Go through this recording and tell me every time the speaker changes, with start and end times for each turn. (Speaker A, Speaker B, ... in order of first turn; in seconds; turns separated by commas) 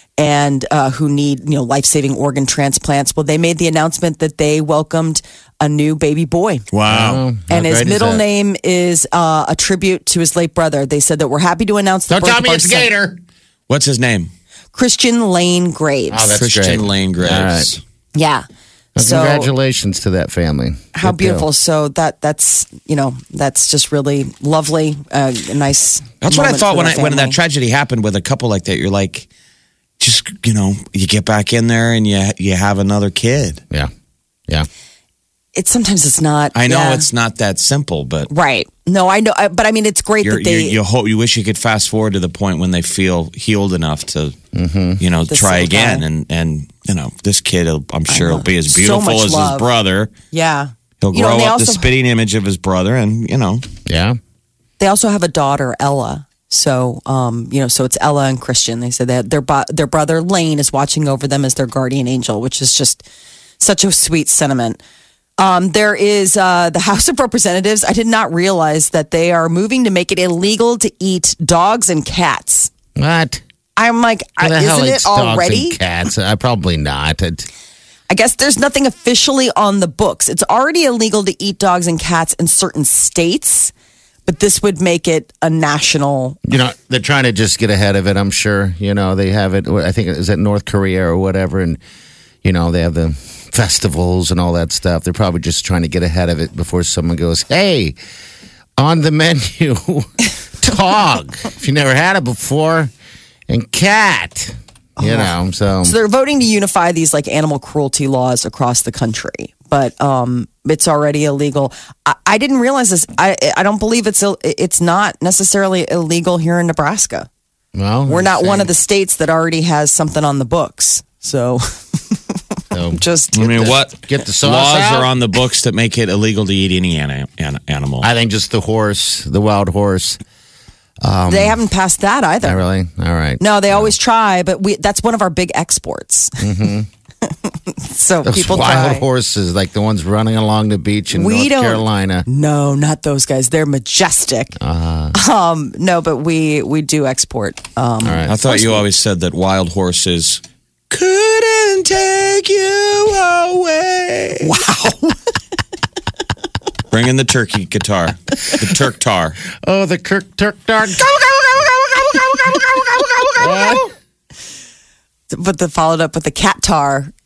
Speaker A: 0.2-6.7, Speaker B: 6.7-7.2, Speaker C: 6.9-8.2, Speaker A: 7.5-12.9, Speaker C: 12.1-13.2, Speaker B: 13.7-14.3, Speaker A: 14.7-16.3, Speaker C: 16.1-17.8, Speaker B: 16.4-17.8, Speaker A: 18.1-18.4, Speaker C: 18.9-21.5, Speaker A: 19.0-19.5, Speaker A: 20.9-27.4, Speaker B: 26.2-29.3, Speaker B: 30.0-33.6, Speaker A: 35.5-37.1, Speaker B: 36.5-38.3, Speaker A: 38.3-40.8, Speaker B: 40.2-44.4, Speaker C: 44.5-45.0, Speaker B: 45.0-50.1, Speaker A: 45.3-46.0, Speaker A: 48.1-49.7, Speaker A: 50.3-51.9, Speaker B: 51.0-53.6, Speaker C: 53.9-54.2, Speaker A: 54.8-63.0, Speaker A: 63.6-64.8, Speaker A: 65.4-72.7, Speaker C: 73.0-73.4, Speaker A: 73.8-75.8, Speaker C: 74.4-77.5, Speaker A: 78.1-83.7, Speaker A: 84.2-86.4, Speaker C: 86.5-91.8, Speaker C: 92.4-98.0, Speaker C: 98.8-102.9, Speaker C: 103.5-106.0, Speaker A: 105.0-117.3, Speaker C: 117.7-118.7, Speaker A: 118.1-122.4, Speaker C: 122.7-125.1, Speaker A: 122.9-123.7, Speaker B: 123.3-128.1, Speaker C: 128.0-130.2, Speaker C: 131.0-131.6, Speaker A: 131.3-132.6, Speaker C: 132.4-133.9, Speaker A: 133.4-136.4, Speaker C: 136.4-136.9, Speaker A: 137.2-139.0, Speaker C: 138.2-142.3, Speaker A: 141.1-144.6, Speaker C: 144.6-145.2, Speaker A: 145.1-148.8, Speaker C: 148.0-148.4, Speaker B: 148.3-154.5, Speaker A: 154.4-155.2, Speaker B: 156.9-159.4, Speaker C: 159.6-161.1, Speaker B: 161.3-162.1, Speaker A: 162.4-163.8, Speaker C: 163.4-163.9, Speaker A: 165.3-167.1